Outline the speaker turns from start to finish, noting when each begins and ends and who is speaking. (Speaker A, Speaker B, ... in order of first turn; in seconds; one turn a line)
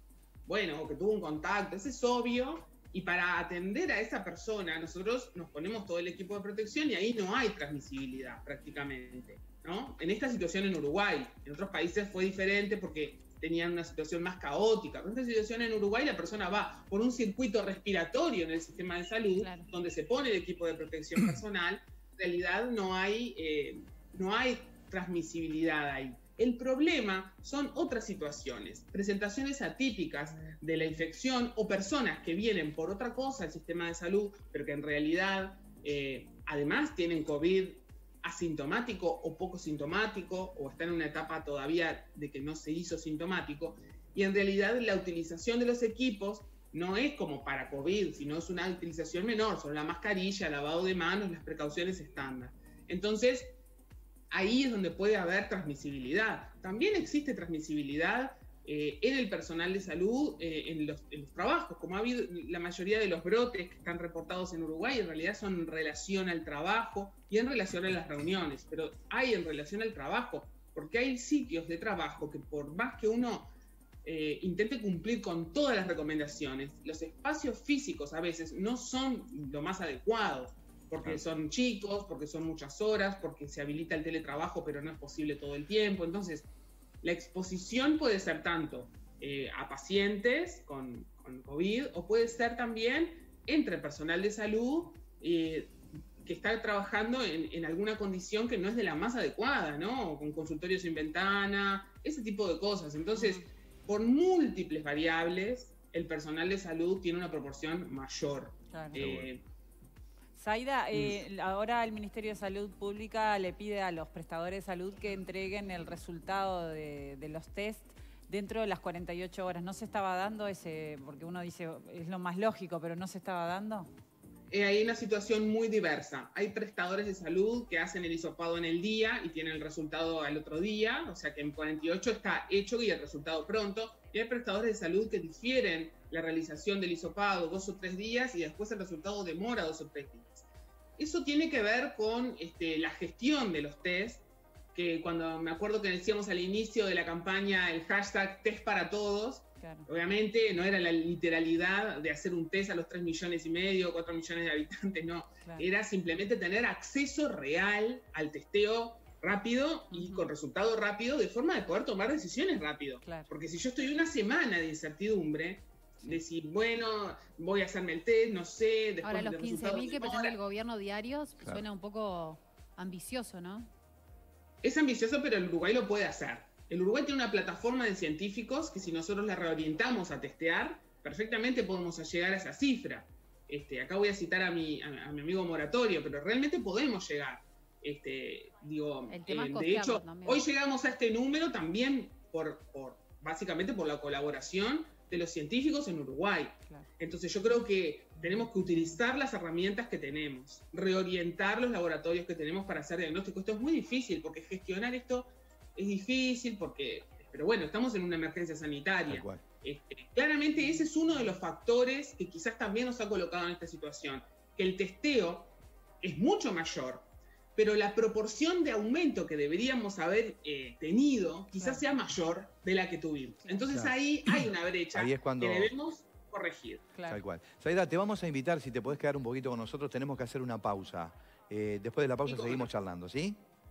Speaker A: 0.5-53.6
Speaker B: 19.4-19.7
Speaker A: 54.3-73.5
Speaker A: 74.0-86.5
Speaker A: 87.0-109.4
Speaker C: 103.2-103.4
Speaker C: 108.7-109.0
Speaker D: 109.0-109.3
Speaker C: 110.3-123.9
Speaker A: 124.5-170.4
Speaker C: 149.6-149.9
Speaker C: 159.9-160.3
Speaker B: 169.0-173.7
Speaker A: 174.6-226.8
Speaker B: 189.1-190.4
Speaker D: 209.1-209.4
Speaker C: 221.6-221.8
Speaker D: 223.7-224.3
Speaker D: 224.9-225.7
Speaker C: 226.9-227.2
Speaker D: 227.1-233.4
Speaker A: 232.2-232.7